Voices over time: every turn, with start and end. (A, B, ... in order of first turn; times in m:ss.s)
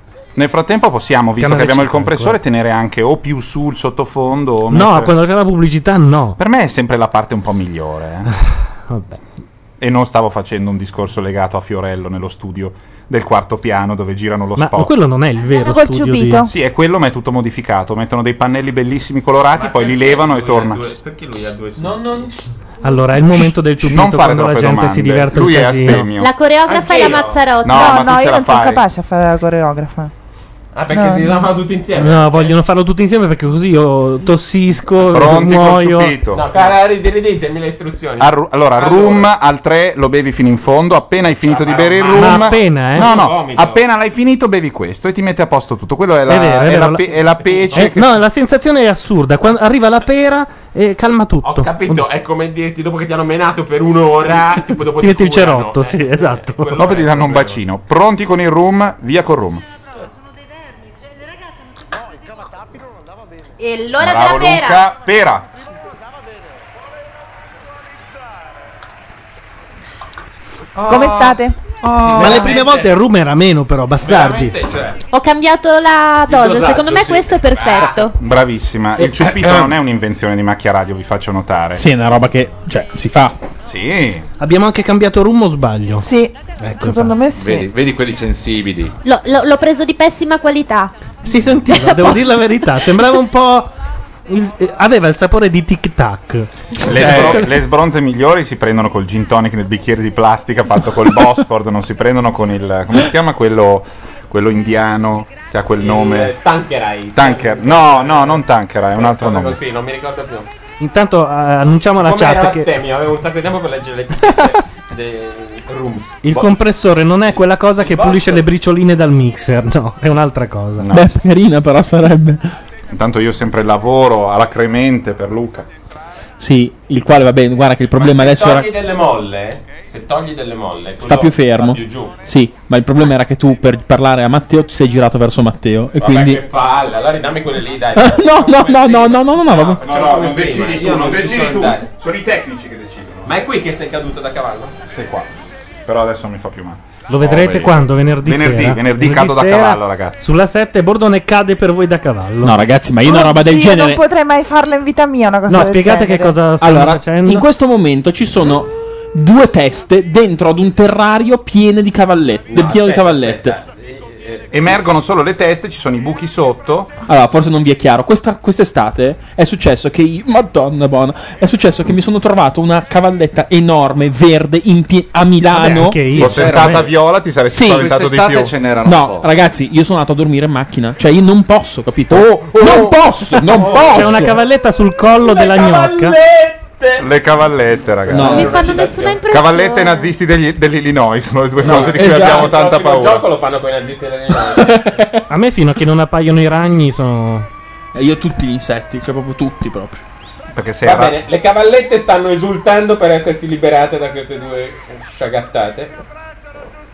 0:00.4-0:05.2 A
0:01.4-0:02.4 B
0:04.7-0:06.4 B
0:06.4-0:08.3 A
0:08.9-0:09.2 B
0:09.8-0:15.0 A
0:14.6-0:16.5 B
0:15.6-0:16.5 C
0:16.4-0:20.8 A
0:19.5-0:22.2 D
0:21.8-0:22.4 E
0:22.8-0:26.1 B
0:23.3-0:26.3 A
0:26.1-0:28.0 F
0:26.7-0:27.4 D
0:27.6-0:28.8 A
0:27.7-0:30.1 C
0:30.7-0:32.6 D
0:30.9-0:31.4 C
0:32.0-0:36.2 B
0:35.0-0:36.7 A
0:36.3-0:39.3 D
0:38.2-0:48.2 A
0:41.4-0:43.8 D
0:42.1-0:43.1 B
0:46.3-0:47.1 B
0:47.3-0:47.9 D
0:47.7-0:52.0 B
0:51.4-0:57.6 D
0:55.0-0:56.8 B
0:56.8-0:59.6 A
1:03.6-1:04.9 F
1:04.0-1:05.5 A
1:10.8-1:12.4 A
1:10.8-1:12.5 C
1:12.0-1:12.9 D
1:12.2-1:14.6 B
1:14.0-1:15.0 D
1:15.1-1:18.2 F
1:16.3-1:17.3 G
1:16.5-1:17.0 D
1:17.5-1:18.0 D
1:18.1-1:21.8 A
1:19.0-1:19.3 B
1:21.8-1:23.4 E
1:23.6-1:24.3 A
1:24.4-1:26.1 B
1:26.0-1:27.7 C
1:26.6-1:27.2 B
1:27.3-1:28.9 G
1:29.0-1:30.9 F
1:31.2-1:33.7 B
1:31.7-1:32.2 F
1:34.3-1:37.3 B
1:36.8-1:46.4 A
1:36.9-1:37.5 E
1:45.8-1:48.4 D
1:47.2-1:49.6 A
1:49.0-1:50.5 D
1:50.8-1:52.7 B
1:52.0-1:56.6 D
1:56.2-2:00.9 B
1:57.3-1:58.5 D
2:00.8-2:01.1 A
2:00.9-2:02.6 E
2:02.9-2:05.7 A
2:06.4-2:08.7 E
2:08.0-2:12.2 D
2:11.0-2:16.4 E
2:16.0-2:21.8 D
2:18.0-2:19.8 E
2:19.8-2:23.4 A
2:23.2-2:24.8 D
2:24.9-2:25.3 A
2:25.9-2:30.2 A
2:27.1-2:32.5 B
2:32.4-2:34.0 E
2:33.0-2:36.4 C
2:35.5-2:37.5 B
2:36.6-2:43.6 E
2:42.5-2:44.8 D
2:44.5-2:46.9 A
2:47.1-2:56.2 E
2:55.5-2:56.8 B
2:56.2-2:56.9 G
2:56.2-2:58.5 A
2:57.5-2:57.9 E
2:57.7-2:59.3 G
2:58.8-3:04.4 E
3:02.1-3:03.4 A
3:03.5-3:04.3 D
3:03.9-3:06.2 B
3:05.1-3:07.1 D
3:07.0-3:08.6 A
3:08.1-3:09.2 D
3:08.1-3:08.5 E
3:08.2-3:10.1 F
3:09.3-3:13.3 A
3:11.6-3:12.6 E
3:11.6-3:15.1 D
3:14.6-3:15.2 E
3:15.3-3:17.5 B
3:18.0-3:20.0 E
3:20.5-3:21.2 A
3:20.8-3:26.0 D